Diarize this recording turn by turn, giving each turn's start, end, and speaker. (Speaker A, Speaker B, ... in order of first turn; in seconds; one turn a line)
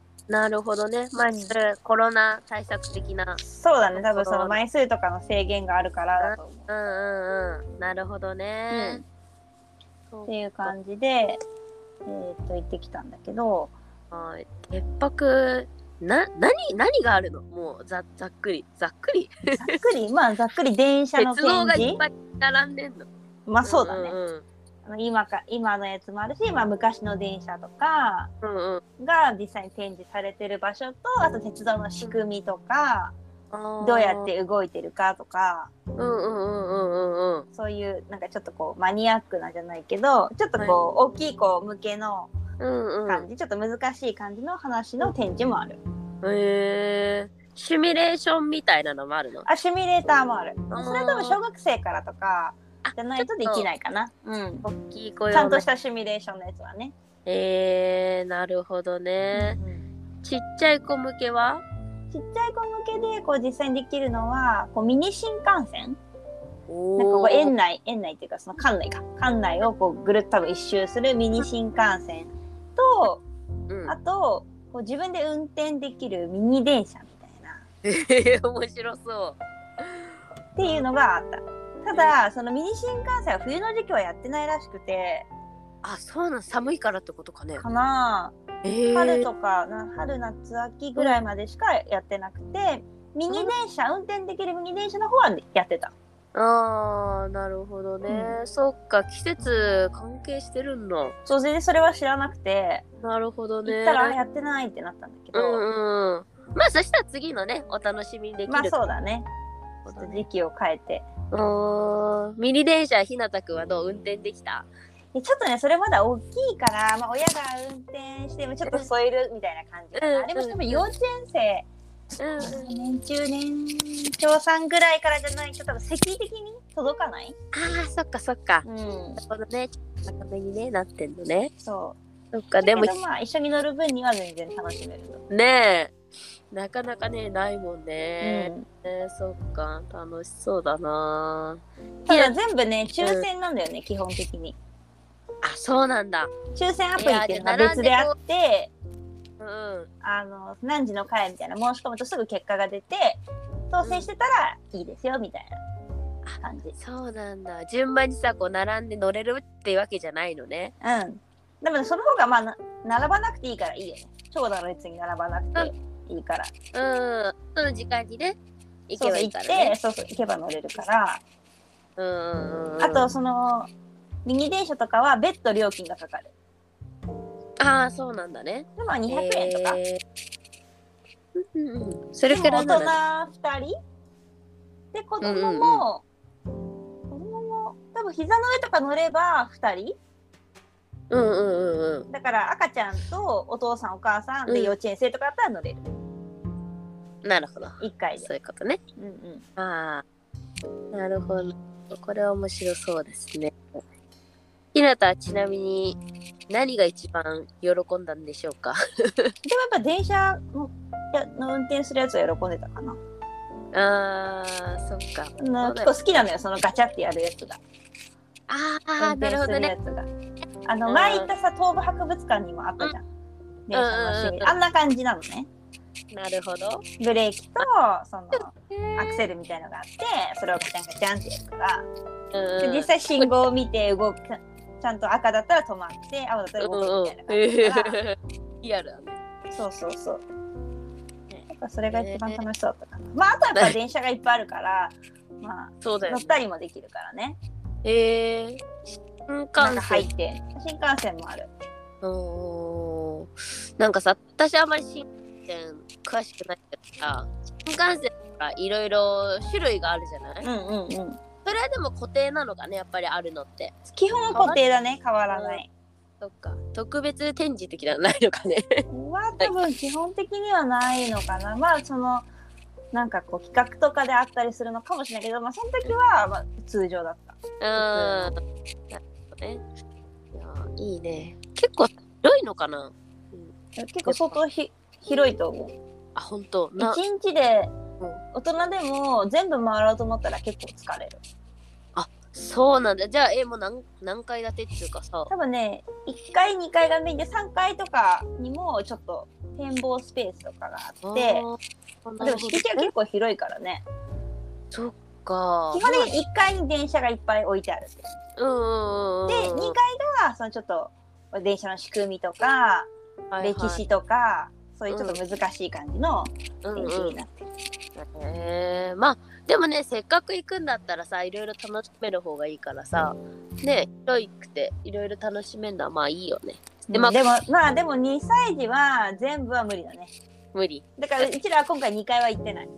Speaker A: 0.3-3.4
Speaker B: 1.2-1.5
Speaker B: 3.4-6.7
Speaker A: 3.9-4.6
Speaker A: 6.2-9.0
Speaker B: 8.7-9.0
Speaker A: 10.1-10.7
Speaker B: 10.3-11.4
Speaker B: 12.1-13.7
Speaker A: 14.1-19.8
Speaker B: 19.5-22.0
Speaker A: 21.2-23.1
Speaker B: 23.5-24.2
Speaker A: 23.6-24.4
Speaker B: 24.9-28.3
Speaker A: 28.4-28.8
Speaker B: 29.0-33.1
Speaker A: 33.5-34.3
Speaker B: 33.8-35.7
Speaker A: 36.0-37.5
Speaker B: 37.5-42.3
Speaker A: 42.6-43.3
Speaker B: 43.1-45.8
Speaker A: 46.2-49.5
Speaker B: 49.5-54.7
Speaker A: 50.7-51.4
Speaker A: 52.8-53.7
Speaker A: 54.6-55.6
Speaker B: 55.3-56.9
Speaker A: 57.2-59.6
Speaker B: 59.3-59.9
Speaker A: 60.2-61.6
Speaker B: 62.1-66.0
Speaker A: 66.7-67.5
Speaker B: 67.0-73.2
Speaker A: 73.7-74.0
Speaker B: 73.9-77.6
Speaker A: 77.8-80.8
Speaker B: 80.5-85.3
Speaker A: 85.8-87.6
Speaker B: 87.6-95.9
Speaker A: 88.6-89.3
Speaker A: 96.3-101.1
Speaker B: 98.1-98.4
Speaker B: 101.2-102.8
Speaker A: 103.0-104.2
Speaker B: 103.6-105.6
Speaker A: 105.3-108.8
Speaker B: 108.5-109.3
Speaker A: 109.8-110.2
Speaker B: 109.9-111.1
Speaker A: 111.3-114.7
Speaker B: 115.1-121.7
Speaker A: 119.9-120.9
Speaker A: 122.2-122.7
Speaker B: 122.4-127.3
Speaker A: 127.5-128.7
Speaker B: 128.6-129.2
Speaker A: 129.2-131.5
Speaker B: 131.6-132.0
Speaker A: 132.3-133.0
Speaker B: 132.6-135.2
Speaker A: 135.3-135.9
Speaker A: 136.5-142.3
Speaker B: 138.2-138.7
Speaker B: 142.1-144.6
Speaker A: 145.4-146.3
Speaker B: 146.5-148.7
Speaker A: 147.0-148.1
Speaker A: 149.4-149.9
Speaker B: 150.0-155.6
Speaker A: 153.8-154.1
Speaker A: 156.2-160.7
Speaker B: 156.4-156.8
Speaker B: 160.8-166.5
Speaker A: 166.7-168.4
Speaker A: 168.9-169.8
Speaker B: 169.0-171.2
Speaker A: 172.0-173.1
Speaker B: 172.8-173.7
Speaker B: 174.2-176.3
Speaker A: 177.6-180.0
Speaker B: 178.8-179.8
Speaker A: 181.3-183.0
Speaker B: 182.3-183.7
Speaker B: 184.9-186.0
Speaker A: 185.2-185.8
Speaker B: 187.1-189.9
Speaker A: 191.1-192.1
Speaker B: 192.1-195.8
Speaker A: 194.5-194.7
Speaker A: 197.2-198.8
Speaker B: 197.8-198.3
Speaker B: 199.0-199.4
Speaker A: 199.6-200.0
Speaker A: 200.9-203.6
Speaker A: 204.7-206.0
Speaker A: 206.5-209.3
Speaker B: 209.4-213.0
Speaker A: 213.7-215.9
Speaker B: 215.4-217.6
Speaker A: 218.5-219.7
Speaker B: 219.0-220.1
Speaker B: 220.7-223.0
Speaker A: 220.9-221.3
Speaker B: 223.7-225.5
Speaker A: 223.7-224.6
Speaker A: 226.1-226.8
Speaker B: 227.0-231.8
Speaker A: 228.3-229.2
Speaker A: 232.3-233.4
Speaker B: 232.6-238.0
Speaker A: 236.6-239.2
Speaker B: 239.5-240.2
Speaker A: 241.3-242.4
Speaker B: 241.5-247.4
Speaker A: 245.8-246.4
Speaker A: 247.8-250.1
Speaker B: 249.6-251.5
Speaker A: 252.0-260.4
Speaker B: 260.4-261.2
Speaker A: 261.4-263.7
Speaker B: 263.9-265.7
Speaker A: 264.3-264.6
Speaker A: 265.3-265.6
Speaker A: 266.2-268.8
Speaker B: 268.9-272.3
Speaker B: 272.9-278.3
Speaker A: 277.6-278.3
Speaker A: 278.9-279.6
Speaker A: 280.3-283.5
Speaker B: 283.8-285.7
Speaker A: 284.0-284.4
Speaker A: 286.1-287.0
Speaker B: 286.8-287.7
Speaker B: 288.3-291.2
Speaker A: 291.9-295.3
Speaker B: 295.3-301.4
Speaker A: 301.0-302.9
Speaker B: 302.2-303.8
Speaker A: 304.7-306.2
Speaker B: 305.7-308.1
Speaker A: 308.4-309.7
Speaker B: 309.3-317.5
Speaker A: 313.3-313.8
Speaker A: 314.9-315.2
Speaker A: 316.6-317.2
Speaker A: 318.0-327.2
Speaker B: 326.9-330.1
Speaker A: 330.5-331.3
Speaker B: 331.0-332.7